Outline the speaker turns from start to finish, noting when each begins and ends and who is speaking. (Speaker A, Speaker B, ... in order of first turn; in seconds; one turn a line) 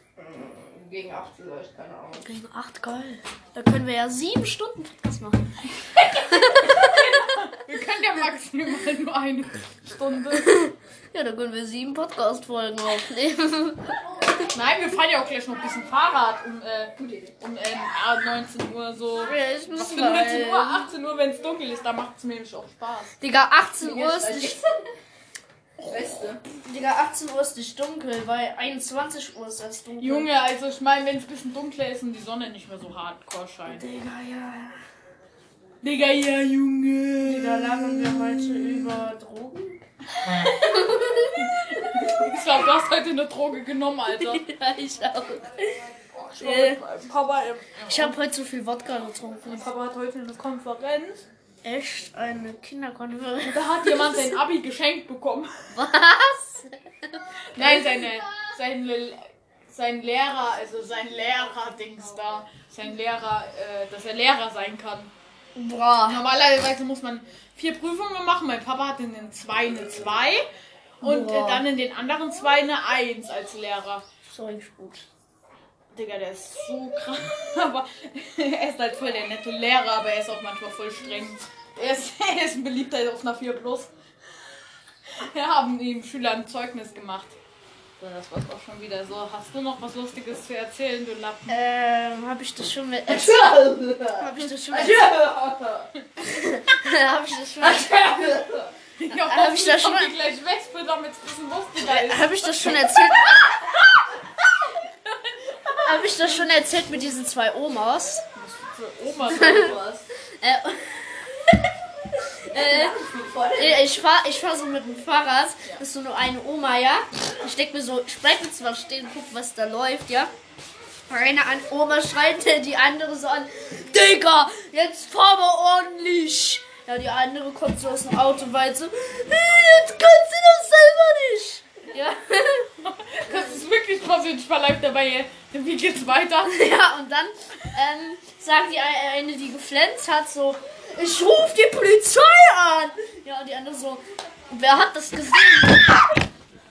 Speaker A: 0.2-2.3
Speaker B: 2.2-5.5
Speaker C: 6.0-10.6
Speaker B: 6.2-7.2
Speaker B: 10.3-13.9
Speaker C: 14.4-23.2
Speaker A: 17.0-17.3
Speaker B: 19.2-20.9
Speaker B: 23.2-24.6
Speaker A: 23.8-24.9
Speaker A: 25.9-26.4
Speaker B: 26.6-30.3
Speaker C: 30.0-33.8
Speaker B: 33.7-34.8
Speaker C: 35.8-39.0
Speaker B: 37.2-42.1
Speaker C: 41.4-44.4
Speaker B: 44.2-45.8
Speaker C: 46.1-48.1
Speaker B: 46.4-46.8
Speaker B: 47.9-49.5
Speaker C: 49.4-51.2
Speaker B: 51.6-54.4
Speaker C: 53.4-55.7
Speaker B: 55.7-57.9
Speaker C: 57.5-65.1
Speaker B: 65.6-66.2
Speaker C: 66.1-70.5
Speaker C: 71.0-74.0
Speaker B: 71.0-71.6
Speaker B: 74.3-75.1
Speaker C: 75.9-83.9
Speaker C: 85.2-87.4
Speaker C: 88.0-91.5
Speaker B: 91.5-93.6
Speaker A: 93.1-95.9
Speaker B: 94.1-95.1
Speaker B: 96.2-98.2
Speaker A: 97.6-98.8
Speaker C: 99.0-103.5
Speaker B: 99.1-100.1
Speaker B: 101.8-103.4
Speaker C: 105.0-106.5
Speaker B: 105.8-108.2
Speaker C: 108.4-109.8
Speaker A: 109.2-110.0
Speaker B: 109.3-109.7
Speaker B: 110.4-111.7
Speaker B: 112.3-113.0
Speaker A: 112.5-113.9
Speaker B: 113.6-120.3
Speaker B: 121.1-132.7
Speaker C: 132.8-136.6
Speaker B: 136.4-146.1